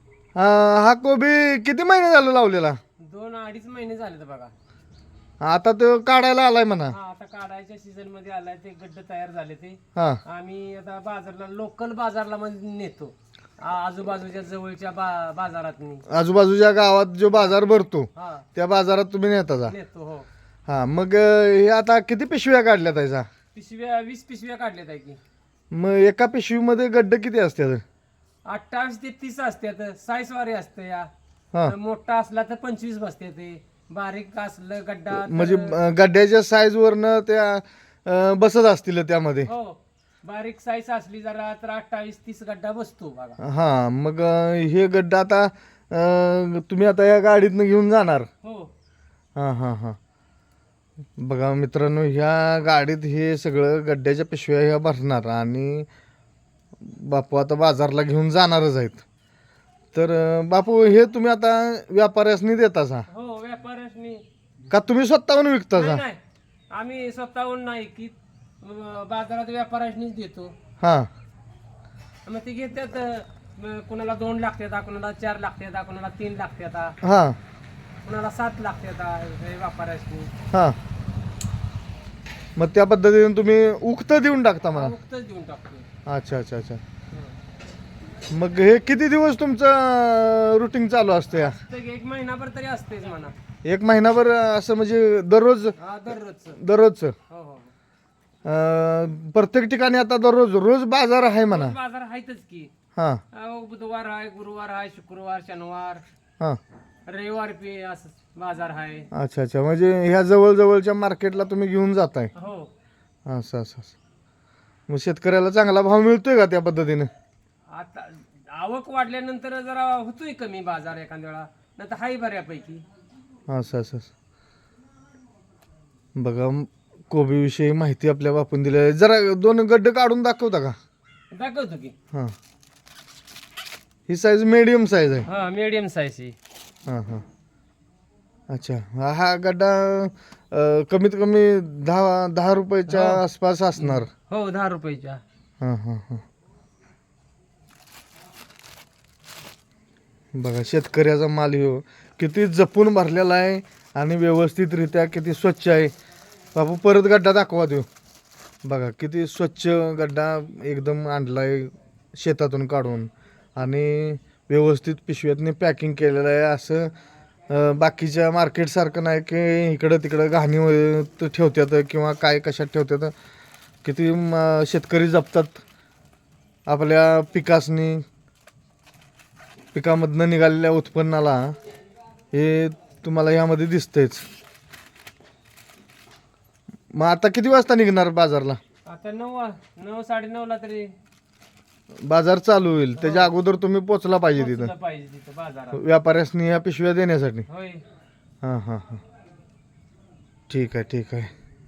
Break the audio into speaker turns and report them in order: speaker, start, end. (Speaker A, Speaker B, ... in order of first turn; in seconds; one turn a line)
Speaker A: 0.3-2.8
Speaker B: 3.0-4.5
Speaker A: 5.4-7.0
Speaker B: 6.9-16.1
Speaker A: 9.9-10.2
Speaker A: 16.1-19.7
Speaker B: 18.1-18.5
Speaker B: 19.7-20.3
Speaker A: 20.7-23.3
Speaker B: 23.6-25.2
Speaker A: 25.7-27.8
Speaker B: 28.4-31.1
Speaker B: 31.7-35.8
Speaker A: 35.1-39.5
Speaker B: 39.5-43.4
Speaker A: 43.4-48.3
Speaker B: 48.4-48.7
Speaker A: 49.4-50.0
Speaker A: 51.2-55.9
Speaker A: 56.8-59.0
Speaker A: 59.9-63.1
Speaker B: 63.1-64.2
Speaker A: 64.7-66.0
Speaker B: 65.7-66.2
Speaker B: 66.7-70.6
Speaker A: 70.8-71.1
Speaker B: 72.3-77.0
Speaker A: 77.0-77.4
Speaker B: 78.0-80.3
Speaker A: 80.5-80.8
Speaker A: 82.6-84.9
Speaker B: 84.7-85.9
Speaker A: 86.1-86.8
Speaker A: 88.3-91.6
Speaker B: 91.3-93.3
Speaker A: 93.6-95.8
Speaker B: 95.8-96.6
Speaker A: 96.6-97.2
Speaker B: 97.3-97.7
Speaker A: 98.5-101.8
Speaker B: 101.5-102.7
Speaker A: 103.0-103.2
Speaker B: 103.3-106.0
Speaker B: 107.1-109.1
Speaker A: 109.1-112.3
Speaker B: 112.3-112.7
Speaker A: 113.3-114.0
Speaker A: 114.9-117.1
Speaker B: 117.7-122.8
Speaker A: 123.5-124.1
Speaker A: 126.2-130.8
Speaker B: 131.3-131.9
Speaker A: 134.1-135.3
Speaker B: 135.2-136.4
Speaker A: 136.9-137.2
Speaker A: 138.5-144.1
Speaker B: 142.9-143.2
Speaker B: 143.8-145.2
Speaker A: 145.6-146.2
Speaker A: 150.3-155.9
Speaker A: 156.6-157.9
Speaker A: 158.6-166.9
Speaker A: 167.5-173.1
Speaker A: 173.8-175.6
Speaker A: 176.7-178.0
Speaker A: 179.7-181.6
Speaker A: 182.3-184.2
Speaker A: 186.9-188.6
Speaker B: 188.9-190.9
Speaker A: 192.0-194.7
Speaker B: 193.0-193.3
Speaker B: 194.3-195.8
Speaker A: 195.7-197.5
Speaker B: 197.5-197.8
Speaker A: 198.4-199.0
Speaker A: 200.5-201.3